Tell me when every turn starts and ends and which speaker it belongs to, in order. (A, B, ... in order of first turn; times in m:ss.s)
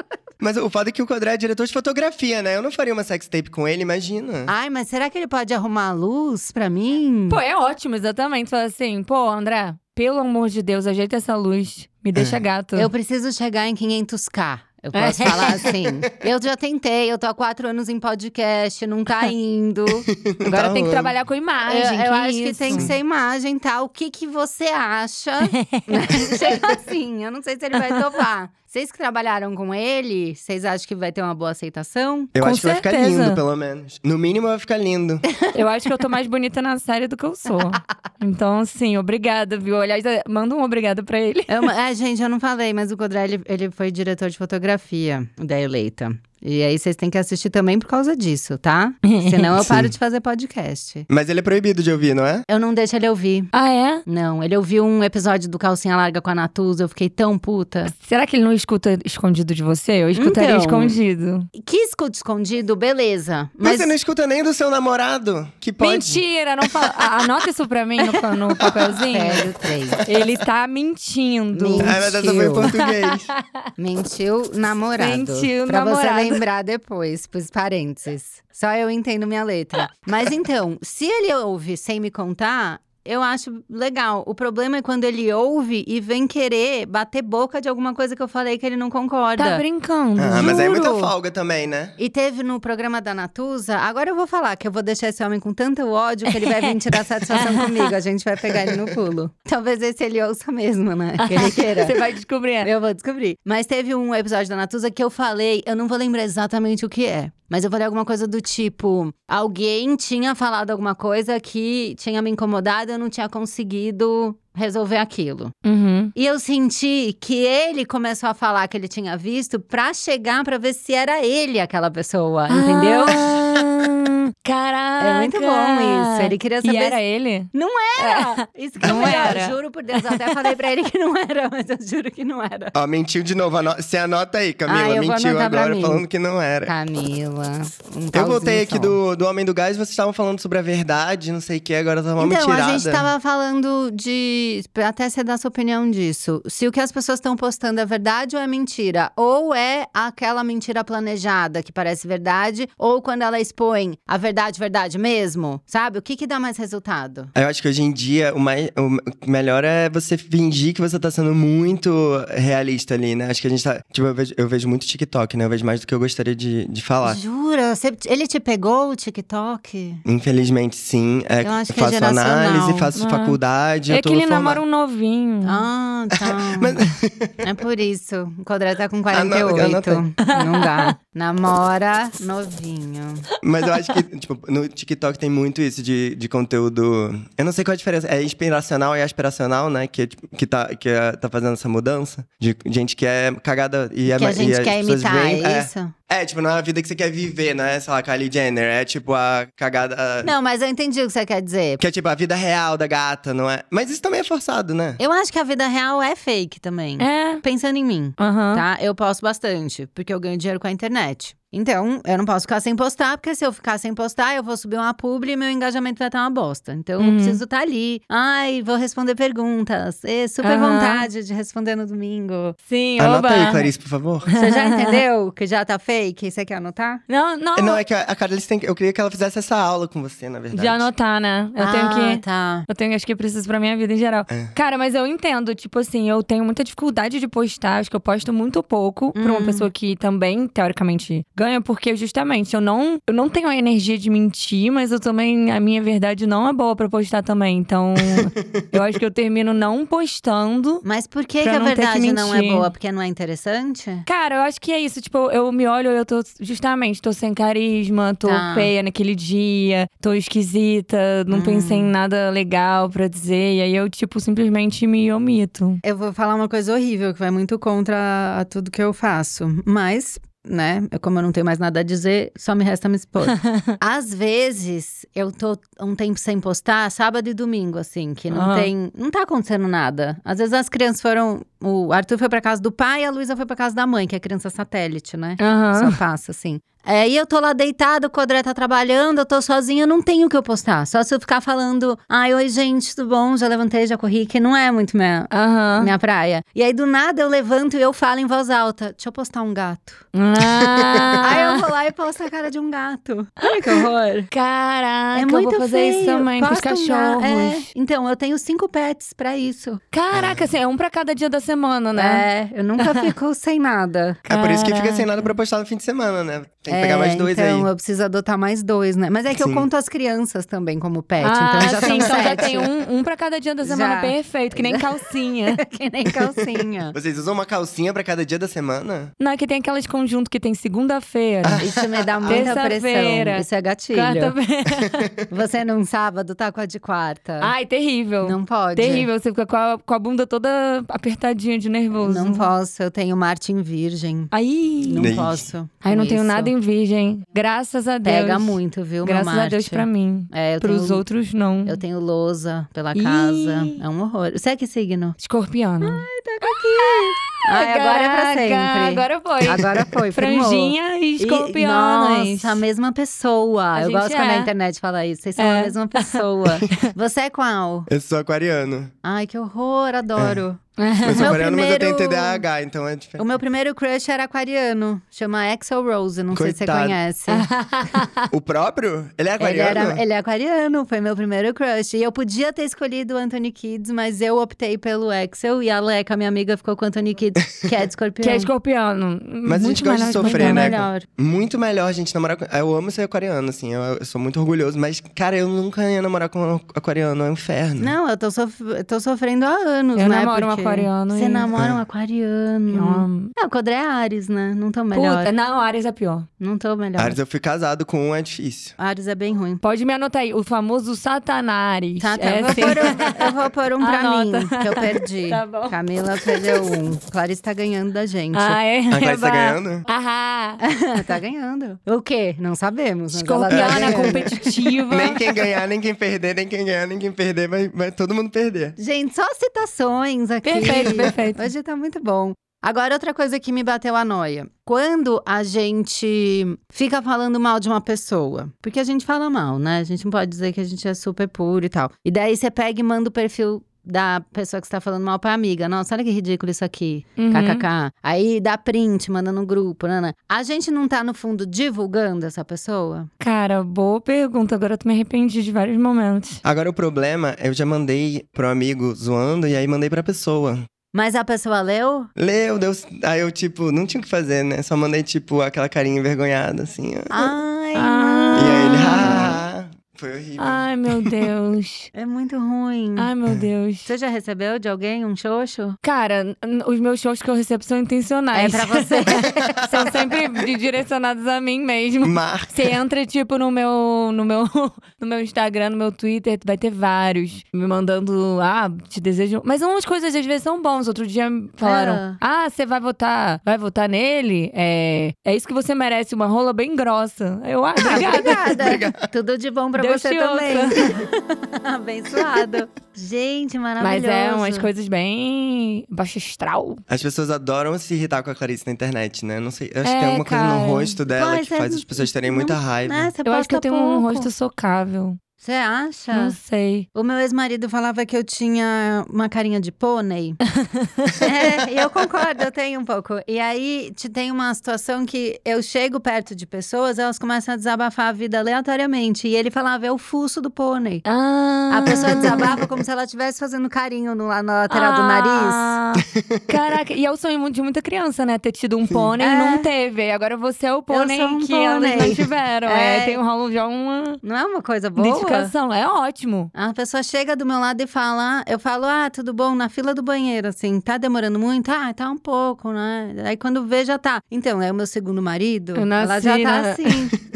0:00.4-0:04.5 A
0:04.5-0:07.4 B
0:07.3-0:12.9 C
0:12.8-0:20.1 B
0:14.9-0:15.7 C
0:20.1-0:21.1 A
0:20.5-0:22.9 C
0:21.6-0:32.3 B
0:25.5-0:26.0 C
0:32.4-0:35.2 A
0:32.4-0:33.4 C
0:35.5-0:41.7 C
0:41.5-0:51.1 B
0:49.0-0:49.5 C
0:49.6-0:49.9 A
0:51.1-0:52.5 A
0:52.5-0:53.5 B
0:53.5-0:54.0 C
0:54.1-0:57.9 B
0:57.9-1:01.5 C
1:00.2-1:01.0 B
1:01.5-1:04.0 B
1:03.6-1:07.1 A
1:05.8-1:09.5 C
1:08.0-1:10.0 B
1:08.6-1:08.9 A
1:10.0-1:13.4 C
1:11.5-1:12.7 B
1:11.8-1:13.3 A
1:13.8-1:29.6 B
1:15.0-1:16.4 C
1:29.4-1:31.1 C
1:30.2-1:32.0 A
1:30.4-1:30.8 B
1:32.0-1:42.0 B
1:36.3-1:36.7 C
1:37.3-1:37.9 C
1:38.6-1:38.9 A
1:41.2-1:42.7 C
1:42.6-1:55.5 B
1:55.6-1:56.1 C
1:56.2-2:03.3 B
2:02.5-2:10.5 C
2:05.0-2:07.0 B
2:07.5-2:12.8 B
2:08.9-2:09.2 A
2:12.7-2:16.7 A
2:14.7-2:16.0 B
2:16.7-2:19.0 B
2:18.1-2:23.1 A
2:22.2-2:37.3 B
2:37.4-2:47.2 A
2:47.0-2:50.0 B
2:50.1-2:54.6 A
2:51.4-2:52.9 B
2:53.0-2:53.4 C
2:53.9-2:55.7 C
2:55.4-2:56.8 B
2:56.2-2:57.4 A
2:57.4-3:03.3 B
2:59.1-3:00.0 A
3:00.3-3:00.9 C
3:03.4-3:20.3 A
3:14.1-3:15.9 B
3:20.2-3:21.8 B
3:21.8-3:25.0 A
3:25.0-3:42.6 B
3:27.0-3:27.4 C
3:28.2-3:28.6 C
3:37.0-3:37.4 C
3:40.4-3:41.1 C
3:42.7-3:43.7 C
3:43.0-3:44.3 A
3:44.3-3:45.0 C
3:44.4-3:47.0 B
3:47.1-3:47.8 C
3:47.6-3:50.9 A
3:50.5-4:10.8 C
3:51.6-3:52.7 B
3:59.2-3:59.7 B
4:08.0-4:08.6 A
4:10.8-4:14.1 B
4:11.4-4:12.7 C
4:14.1-4:25.8 C
4:18.2-4:18.7 B
4:21.3-4:21.9 B
4:25.8-5:00.1 B
4:33.3-4:33.7 C
4:38.3-4:38.7 C
4:45.4-4:46.0 C
4:55.3-4:55.9 C
5:00.1-5:01.7 C
5:00.4-5:01.2 A
5:01.2-5:04.3 B
5:03.4-5:07.7 C
5:05.1-5:09.8 B
5:09.9-5:12.2 C
5:10.1-5:10.5 A
5:12.0-5:14.2 B
5:12.8-5:13.1 C
5:14.3-5:15.2 C
5:14.3-5:17.7 A
5:16.7-5:22.7 B
5:19.3-5:19.7 A
5:21.2-5:25.6 C
5:21.8-5:22.4 A
5:23.6-5:27.0 B
5:26.9-5:29.1 A
5:29.2-5:31.7 C
5:31.4-5:32.5 A
5:31.6-5:34.4 B
5:32.3-5:35.1 C
5:34.8-5:35.1 A
5:35.3-5:37.5 B
5:37.4-5:42.5 C
5:38.2-5:39.1 B
5:42.0-5:44.3 B
5:44.3-5:45.1 C
5:44.8-5:46.5 B
5:45.0-5:45.4 A
5:45.8-5:51.8 C
5:48.0-5:51.0 B
5:51.6-5:55.2 B
5:53.0-5:53.8 C
5:55.2-6:02.6 C
5:55.8-6:07.9 B
6:03.8-6:04.5 C
6:05.4-6:06.9 C
6:07.9-6:08.9 A
6:09.0-6:10.6 B
6:10.2-6:10.4 A
6:10.8-6:11.4 C
6:11.0-6:13.3 A
6:11.1-6:12.4 B
6:13.2-6:17.5 B
6:16.3-6:17.0 A
6:17.3-6:18.3 C
6:18.3-6:20.0 A
6:19.4-6:28.5 B
6:28.2-6:30.8 C
6:29.4-6:38.0 A
6:30.2-6:31.0 B
6:37.8-6:45.3 B
6:40.0-6:41.5 C
6:41.6-6:41.8 A
6:42.7-6:43.3 C
6:44.9-6:46.3 C
6:46.4-6:47.2 B
6:47.0-6:48.8 A
6:48.8-6:49.6 B
6:49.6-6:56.7 C
6:52.0-6:58.6 B
6:58.3-7:00.6 C
6:58.9-6:59.9 A
7:00.6-7:04.8 B
7:03.1-7:05.2 C
7:03.5-7:08.8 A
7:08.8-7:33.1 B
7:10.4-7:11.5 C
7:27.2-7:27.6 C
7:33.2-7:36.4 C
7:36.4-7:40.6 A
7:40.9-7:42.1 B
7:42.2-7:47.3 A
7:47.1-7:49.3 B
7:47.8-7:49.4 C
7:48.4-7:51.3 A
7:50.4-7:51.9 C
7:51.9-7:53.1 B
7:53.0-7:53.9 C
7:53.8-7:55.8 B
7:55.8-8:18.6 C
7:58.3-7:59.6 B
7:59.2-8:00.3 A
8:02.0-8:02.8 A
8:11.6-8:12.2 B
8:17.8-8:24.7 B
8:18.6-8:19.0 A
8:19.8-8:21.0 C
8:23.8-8:26.8 C
8:26.9-8:33.1 A
8:29.8-8:30.9 C
8:31.1-8:34.3 B
8:33.2-8:35.2 C
8:35.4-8:36.4 B
8:36.1-8:36.9 C
8:37.0-8:40.4 B
8:40.6-8:41.2 C
8:41.2-8:51.0 B
8:51.0-8:52.6 C
8:51.7-8:55.8 B
8:51.9-8:52.7 A
8:54.7-9:04.2 C
8:56.1-8:56.4 A
8:59.2-8:59.7 B
9:00.9-9:03.2 B
9:04.2-9:05.5 B
9:05.0-9:06.5 C
9:06.6-9:17.1 B
9:15.8-9:17.0 C